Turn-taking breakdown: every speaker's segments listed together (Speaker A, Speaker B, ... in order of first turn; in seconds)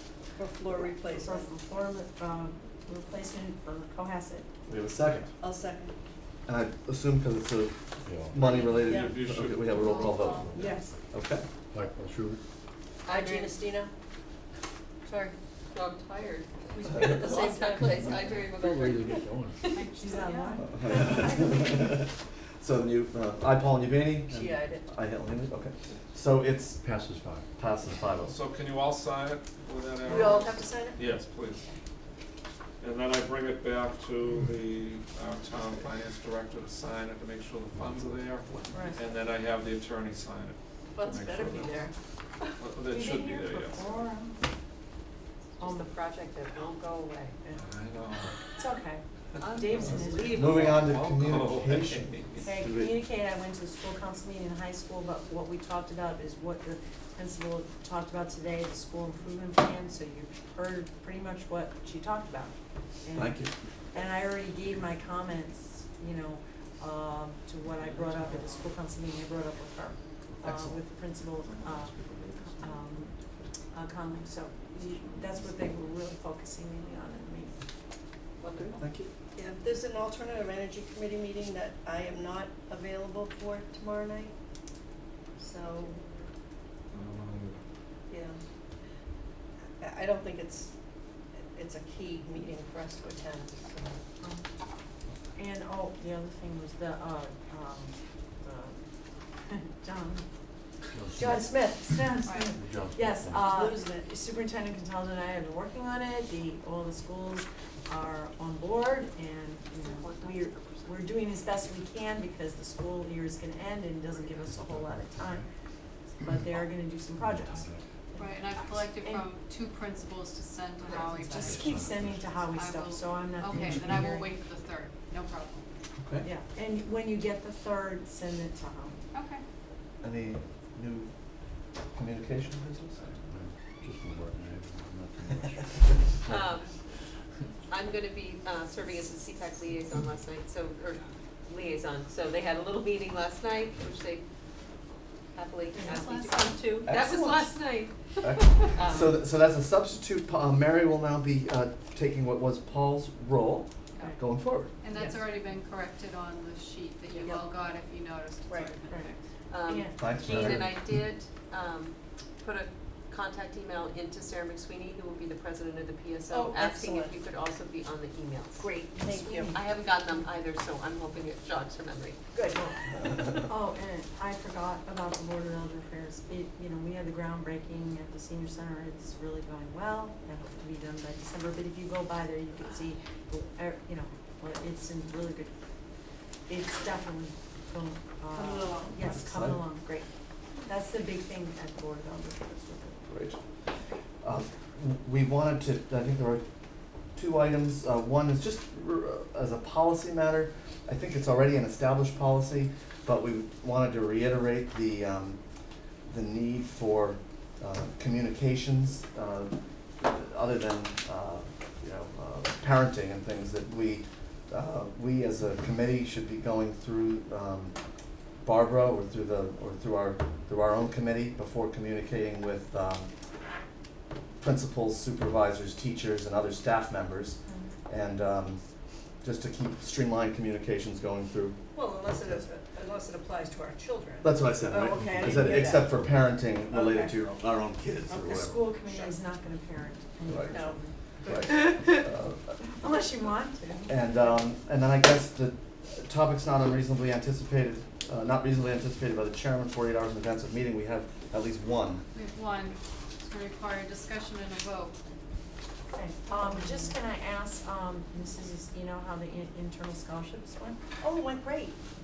Speaker A: 0.3-1.5, 5.4-5.9, 8.8-9.1, 13.1-13.9, 16.9-18.3, 24.3-24.8, 30.1-31.0, 40.9-41.9, 79.3-84.3, 85.4-86.0, 88.1-88.4, 89.8-90.7, 91.5-94.0, 103.5-104.0, 120.9-121.3, 157.1-157.4, 166.3-167.2, 168.6-169.6, 172.3-172.8, 188.3-189.0, 231.7-236.0, 236.7-237.2, 238.9-239.2, 240.5-241.7, 261.0-261.8
Speaker B: 0.7-4.5, 10.5-10.9, 19.9-22.0, 38.7-39.0, 42.9-44.4, 45.6-45.8, 48.5-50.3, 52.4-63.4, 63.9-71.9, 72.5-73.1, 73.7-77.5, 95.3-98.8, 99.5-100.2, 101.1-115.5, 116.2-119.3, 121.3-124.4, 126.2-129.0, 145.8-146.0, 159.7-160.5, 168.9-169.6, 173.4-185.5, 186.5-190.1, 190.6-193.0, 238.1-242.1, 242.7-244.1, 255.9-260.8
Speaker C: 4.7-5.3, 6.5-7.7, 8.3-11.4, 20.6-22.1, 22.6-26.8, 27.6-28.4, 50.3-53.0, 63.1-63.5, 70.4-70.8, 71.9-72.3, 78.5-79.1, 126.0-126.3, 130.0-131.1, 131.9-133.2, 146.8-147.6, 148.2-154.7, 160.0-160.8, 189.0-189.7, 193.1-193.4, 194.2-196.4, 197.2-205.4, 206.1-217.7, 218.4-223.1, 224.4-228.6, 229.2-231.6, 234.2-238.6, 240.3-240.6, 241.2-242.6, 243.9-252.0
Speaker D: 8.0-8.9, 11.7-12.4, 18.6-19.6, 26.8-27.5, 100.9-101.6, 102.2-103.5, 114.4-115.5, 117.2-117.8, 121.5-122.4, 133.2-136.4
Speaker E: 9.0-10.7, 28.3-31.6, 32.8-41.8, 42.6-44.1, 47.5-48.4, 50.0-52.5, 86.9-87.5
Speaker F: 9.8-10.2, 13.0-13.7, 15.1-20.4, 45.6-47.4, 49.4-50.9, 109.7-111.0, 136.2-136.7, 137.7-144.2, 145.3-149.2, 159.5-168.7, 169.5-172.2
Speaker G: 10.1-10.4, 19.7-20.6, 102.2-102.5, 118.2-121.7, 122.5-125.6, 129.1-129.4, 145.8-146.7, 154.8-159.2, 252.1-254.9